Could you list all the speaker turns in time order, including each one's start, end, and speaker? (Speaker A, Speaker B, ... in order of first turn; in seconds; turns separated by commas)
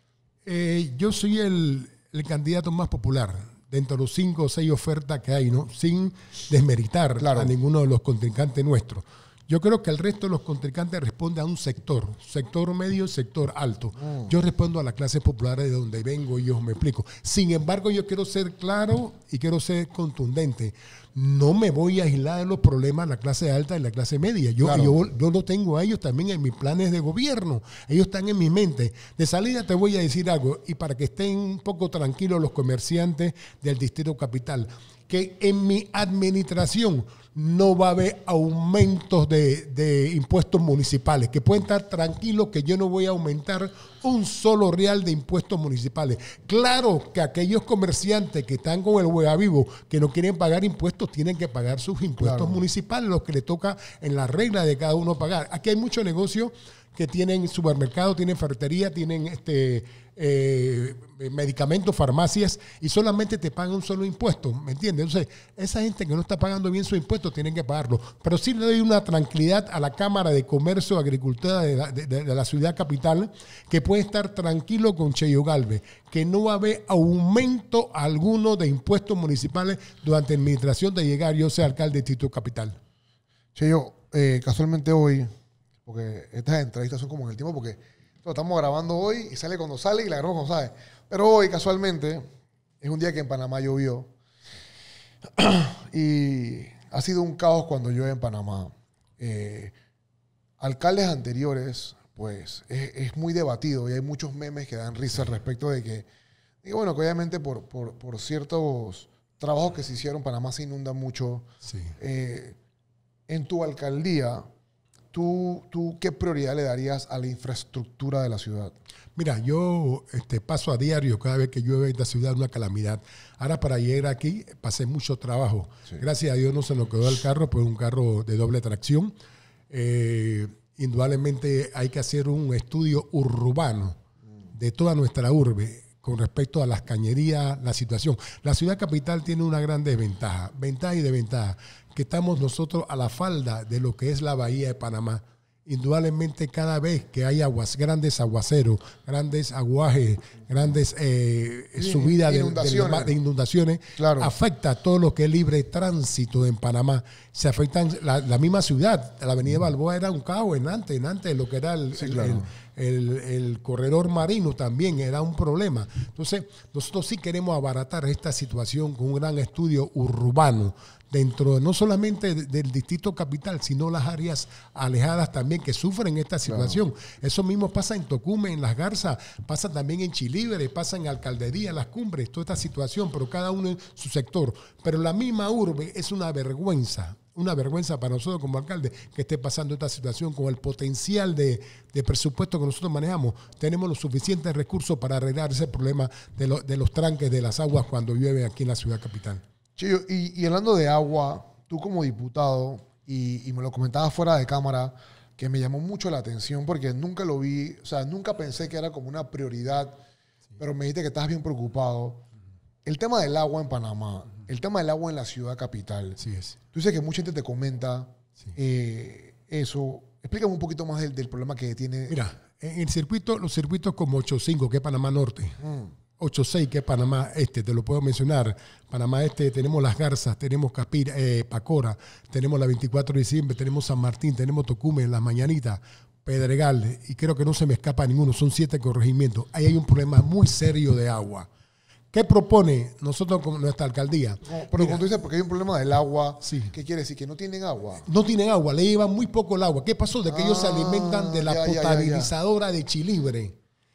Speaker A: 0.4-82.8, Speaker B: 7.2-7.5, Speaker B: 14.0-14.3, Speaker B: 24.6-25.0, Speaker B: 52.2-52.6, Speaker B: 83.5-85.3, Speaker B: 85.8-92.3, Speaker B: 92.8-94.1, Speaker B: 95.4-99.7, Speaker B: 100.6-106.0, Speaker B: 106.6-112.6, Speaker A: 111.6-111.9, Speaker B: 113.3-114.4, Speaker B: 115.1-118.7, Speaker A: 119.2-129.1, Speaker A: 129.7-134.0, Speaker A: 134.5-199.4, Speaker B: 151.8-153.1, Speaker B: 154.0-154.3, Speaker B: 161.9-162.5, Speaker B: 176.5-176.8, Speaker B: 199.8-209.9, Speaker B: 210.6-212.2, Speaker B: 212.8-216.2, Speaker A: 216.2-216.6, Speaker B: 216.7-222.2, Speaker A: 222.1-225.6, Speaker B: 225.6-225.9, Speaker A: 226.2-241.5, Speaker A: 242.1-245.0, Speaker B: 244.4-248.1, Speaker A: 246.4-246.7, Speaker A: 248.0-253.5, Speaker B: 250.3-252.3